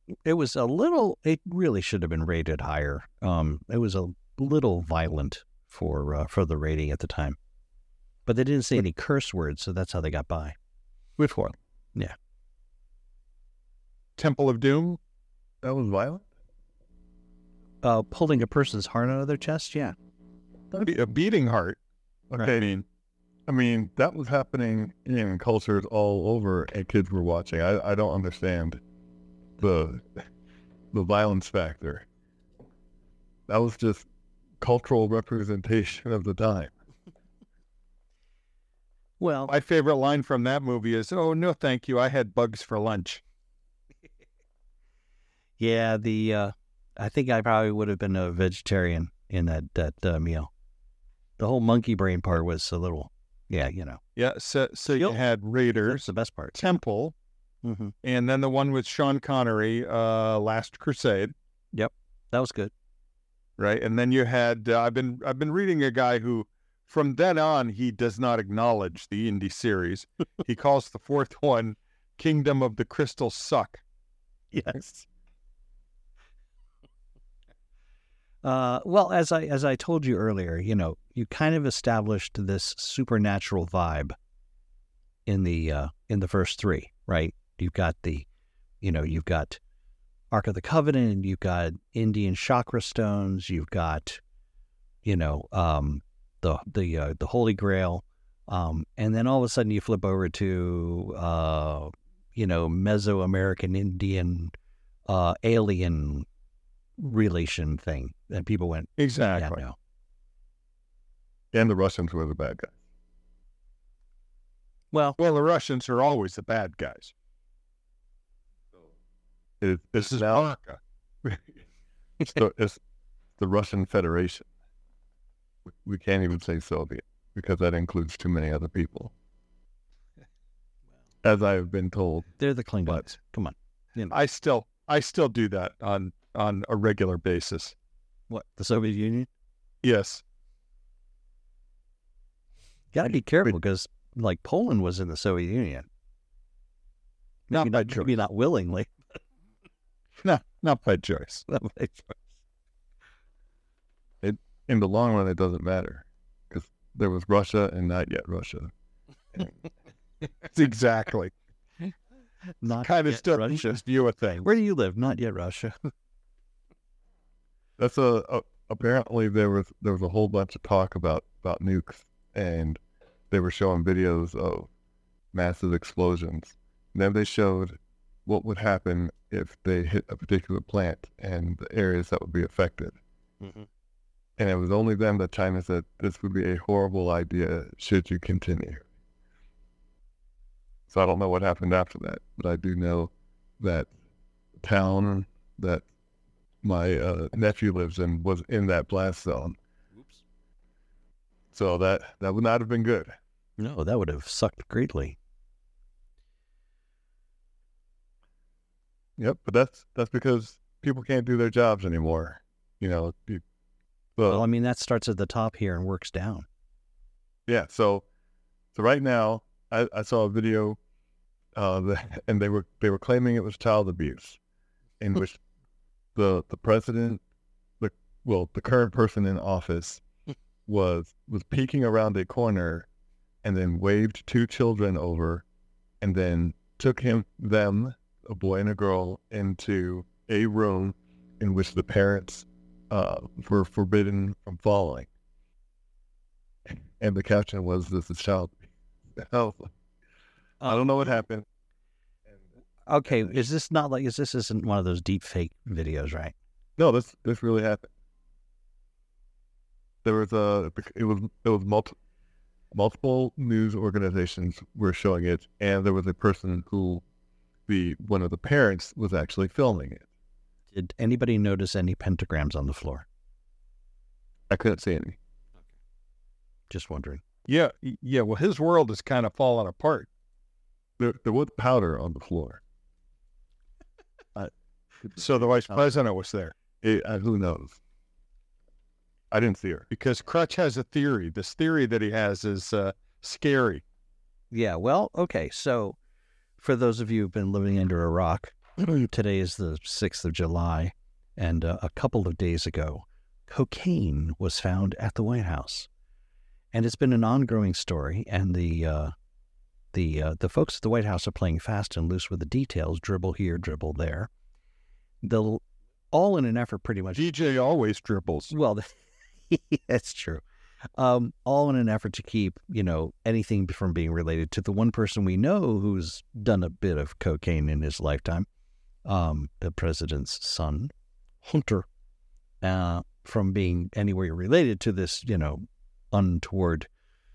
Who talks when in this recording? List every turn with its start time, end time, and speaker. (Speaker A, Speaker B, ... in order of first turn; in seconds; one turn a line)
Speaker A: 0.3-7.4
Speaker A: 8.3-10.6
Speaker B: 11.2-11.6
Speaker C: 14.2-15.0
Speaker B: 15.6-16.3
Speaker A: 17.8-19.9
Speaker C: 20.7-21.8
Speaker B: 22.4-22.7
Speaker C: 22.4-22.8
Speaker B: 23.5-28.8
Speaker B: 29.6-30.2
Speaker B: 30.9-32.1
Speaker B: 33.5-34.1
Speaker B: 34.6-36.7
Speaker A: 39.2-39.5
Speaker C: 39.5-43.2
Speaker A: 45.6-50.5
Speaker A: 51.4-54.0
Speaker C: 54.2-57.1
Speaker A: 55.8-56.6
Speaker A: 57.6-57.9
Speaker C: 58.0-61.3
Speaker A: 61.7-62.7
Speaker C: 63.6-73.8
Speaker A: 74.5-75.1
Speaker A: 78.4-84.2
Speaker A: 85.3-88.3
Speaker A: 88.8-89.6
Speaker A: 90.3-94.2
Speaker A: 95.0-104.5
Speaker A: 105.1-106.3
Speaker A: 107.0-109.8
Speaker C: 109.0-109.6
Speaker B: 111.5-112.8
Speaker A: 114.9-115.2
Speaker C: 115.2-117.1
Speaker B: 119.6-120.5
Speaker C: 120.0-120.8
Speaker B: 121.2-121.6
Speaker B: 122.2-122.8
Speaker B: 123.4-124.5
Speaker B: 125.7-129.1
Speaker B: 131.2-132.3
Speaker A: 132.4-134.2
Speaker C: 134.1-137.8
Speaker A: 138.3-139.3
Speaker C: 139.8-140.2
Speaker A: 142.9-145.9
Speaker A: 147.5-148.9
Speaker C: 147.5-148.1
Speaker C: 150.2-151.5
Speaker A: 151.5-152.2
Speaker B: 154.2-158.7
Speaker C: 160.5-161.3
Speaker A: 162.6-165.8
Speaker C: 162.8-164.4
Speaker B: 167.8-172.8
Speaker B: 173.3-174.7
Speaker B: 175.3-183.0
Speaker A: 183.4-183.7
Speaker B: 184.4-188.8
Speaker B: 190.9-193.9
Speaker B: 194.6-195.8
Speaker B: 196.6-199.6
Speaker B: 201.5-203.2
Speaker A: 203.6-205.2
Speaker B: 209.2-213.4
Speaker B: 214.2-214.4
Speaker A: 214.3-216.5
Speaker B: 217.5-218.1
Speaker B: 218.7-220.8
Speaker B: 221.6-224.4
Speaker B: 225.0-225.4
Speaker B: 226.2-227.2
Speaker B: 227.8-230.0
Speaker B: 230.7-232.9
Speaker B: 233.4-235.4
Speaker B: 236.0-245.1
Speaker B: 246.7-248.6
Speaker B: 249.2-249.7
Speaker B: 250.6-251.5
Speaker A: 252.9-256.3
Speaker B: 256.8-257.9
Speaker B: 260.0-261.9
Speaker B: 262.7-267.0
Speaker B: 267.7-270.1
Speaker A: 270.7-273.1
Speaker B: 274.5-275.2
Speaker A: 276.7-277.2
Speaker C: 277.5-280.1
Speaker B: 281.0-282.6
Speaker B: 284.4-285.9
Speaker C: 285.2-286.6
Speaker B: 286.8-287.8
Speaker B: 289.3-289.9
Speaker C: 289.9-293.8
Speaker A: 294.5-296.0
Speaker A: 296.6-305.9
Speaker A: 306.7-309.1
Speaker A: 309.9-314.3
Speaker A: 315.2-317.3
Speaker C: 317.1-318.5
Speaker A: 318.5-319.0
Speaker A: 319.5-320.4
Speaker A: 321.0-328.5
Speaker A: 329.1-330.9
Speaker A: 331.4-331.9
Speaker A: 332.6-336.9